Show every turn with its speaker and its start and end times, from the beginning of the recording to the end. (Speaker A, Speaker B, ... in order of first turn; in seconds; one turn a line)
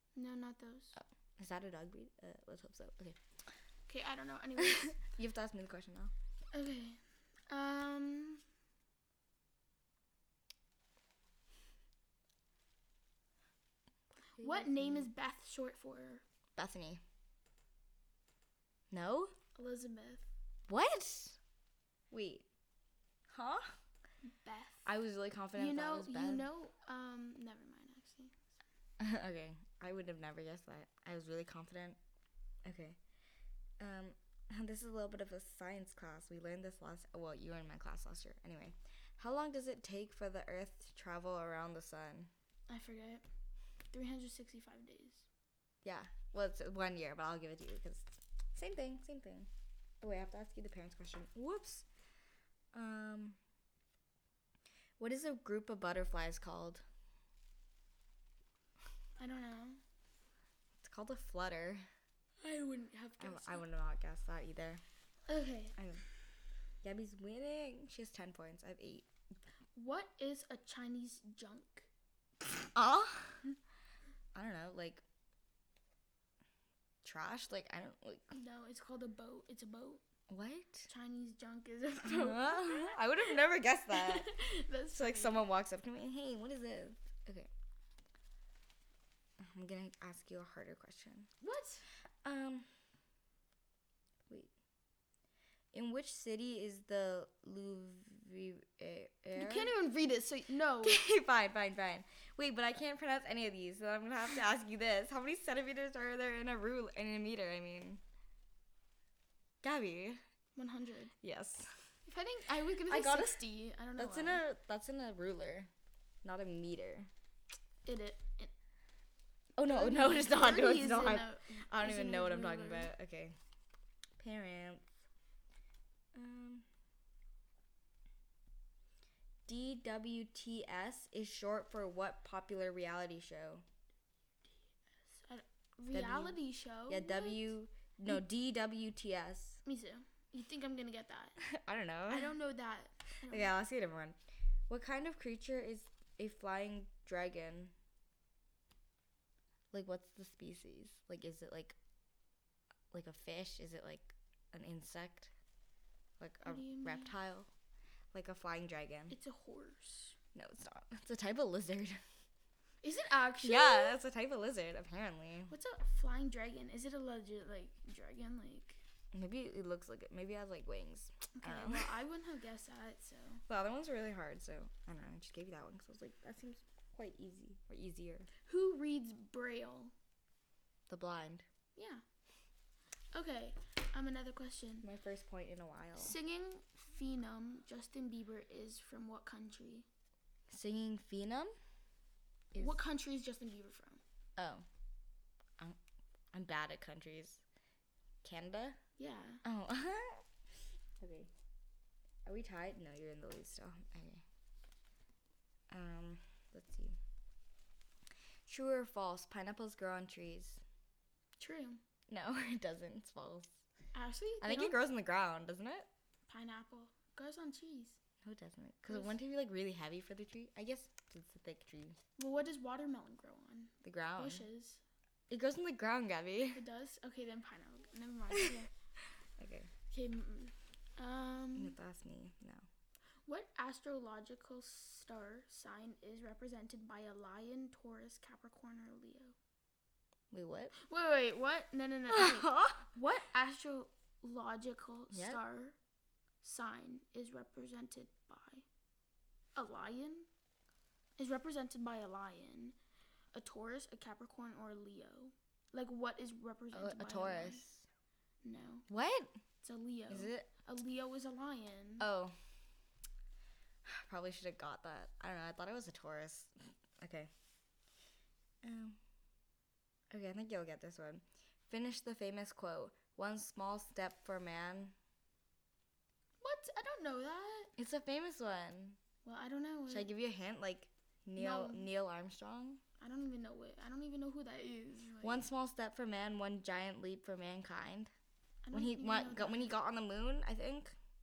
Speaker A: 0.1-1.0
Speaker B: 0.9-3.2
Speaker A: 3.9-5.0
Speaker B: 4.6-6.1
Speaker A: 6.5-8.4
Speaker B: 14.4-15.1
Speaker A: 14.4-16.2
Speaker B: 16.6-17.0
Speaker B: 18.9-19.3
Speaker A: 19.5-20.3
Speaker B: 20.7-21.4
Speaker B: 22.1-22.4
Speaker B: 23.3-23.7
Speaker A: 24.2-24.9
Speaker B: 24.9-26.5
Speaker A: 25.6-28.5
Speaker B: 29.0-32.0
Speaker B: 32.6-33.0
Speaker B: 33.8-42.3
Speaker A: 42.7-43.2
Speaker A: 43.9-45.2
Speaker B: 45.8-49.5
Speaker B: 50.0-51.9
Speaker B: 52.7-53.4
Speaker B: 55.0-56.8
Speaker A: 59.2-59.8
Speaker B: 60.8-61.8
Speaker A: 62.4-63.6
Speaker B: 63.2-64.8
Speaker A: 65.3-65.8
Speaker B: 65.8-66.0
Speaker B: 66.8-69.1
Speaker A: 69.7-71.9
Speaker B: 72.7-73.4
Speaker B: 74.3-75.0
Speaker B: 77.0-78.3
Speaker A: 78.3-80.0
Speaker B: 80.3-80.9
Speaker A: 80.9-83.3
Speaker B: 82.0-84.3
Speaker A: 83.9-85.4
Speaker B: 84.9-87.5
Speaker B: 89.4-91.3
Speaker A: 91.4-91.8
Speaker B: 92.2-92.7
Speaker B: 95.7-99.7
Speaker A: 99.3-101.0
Speaker B: 100.8-108.0
Speaker B: 109.6-110.2
Speaker A: 110.5-111.1
Speaker B: 111.2-111.8
Speaker A: 112.0-114.4
Speaker B: 112.9-113.4
Speaker B: 114.0-115.7
Speaker B: 116.2-117.1
Speaker A: 117.8-118.5
Speaker B: 119.6-123.3
Speaker A: 119.7-122.9
Speaker B: 124.2-124.9
Speaker B: 126.1-126.7
Speaker B: 129.4-133.6
Speaker A: 135.0-137.5
Speaker B: 135.9-139.6
Speaker A: 139.6-141.4
Speaker B: 141.4-142.3
Speaker A: 142.1-143.5
Speaker B: 143.3-144.2
Speaker B: 144.7-147.7
Speaker B: 149.7-151.8
Speaker B: 152.9-155.3
Speaker B: 156.2-157.5
Speaker A: 156.4-157.1
Speaker B: 158.1-159.1
Speaker A: 159.1-160.2
Speaker B: 160.3-162.0
Speaker A: 162.8-164.0
Speaker B: 163.4-165.5
Speaker A: 165.5-168.8
Speaker B: 169.1-171.9
Speaker A: 171.3-173.4
Speaker B: 173.5-178.3
Speaker A: 178.4-179.9
Speaker B: 180.9-181.4
Speaker A: 181.8-182.0
Speaker A: 183.1-184.9
Speaker B: 184.8-186.2
Speaker A: 186.0-189.9
Speaker B: 190.5-191.5
Speaker B: 192.5-192.8
Speaker A: 192.6-194.0
Speaker B: 194.4-194.6
Speaker B: 196.3-197.4
Speaker B: 198.2-198.8
Speaker A: 199.0-199.4
Speaker B: 199.4-200.2
Speaker B: 201.0-201.3
Speaker B: 202.2-204.2
Speaker B: 205.7-207.0
Speaker B: 208.5-210.6
Speaker A: 211.4-211.8
Speaker B: 212.1-213.5
Speaker A: 213.9-214.8
Speaker B: 214.4-215.9
Speaker A: 216.3-218.0
Speaker B: 218.2-222.0
Speaker A: 218.9-219.1
Speaker A: 222.2-224.8
Speaker B: 223.8-224.4
Speaker B: 225.3-226.6
Speaker A: 226.5-228.7
Speaker B: 229.4-229.7
Speaker A: 229.9-231.7
Speaker B: 231.6-232.7
Speaker A: 233.2-239.3
Speaker B: 240.3-240.7
Speaker A: 240.7-245.8
Speaker B: 242.1-242.9
Speaker B: 245.1-245.4
Speaker A: 246.4-248.7
Speaker A: 249.6-250.3
Speaker A: 251.2-252.8
Speaker A: 253.3-257.6
Speaker B: 256.7-257.9
Speaker A: 258.4-258.9
Speaker B: 258.9-259.4
Speaker A: 259.6-262.1
Speaker B: 260.1-260.5
Speaker B: 262.0-262.4
Speaker B: 263.8-267.3
Speaker B: 268.6-269.0
Speaker B: 270.1-274.9
Speaker A: 276.4-277.7
Speaker B: 277.8-279.0
Speaker A: 279.2-280.1
Speaker B: 279.9-282.8
Speaker A: 281.4-281.9
Speaker A: 283.0-285.5
Speaker B: 285.2-288.1
Speaker A: 288.6-289.7
Speaker B: 288.7-290.9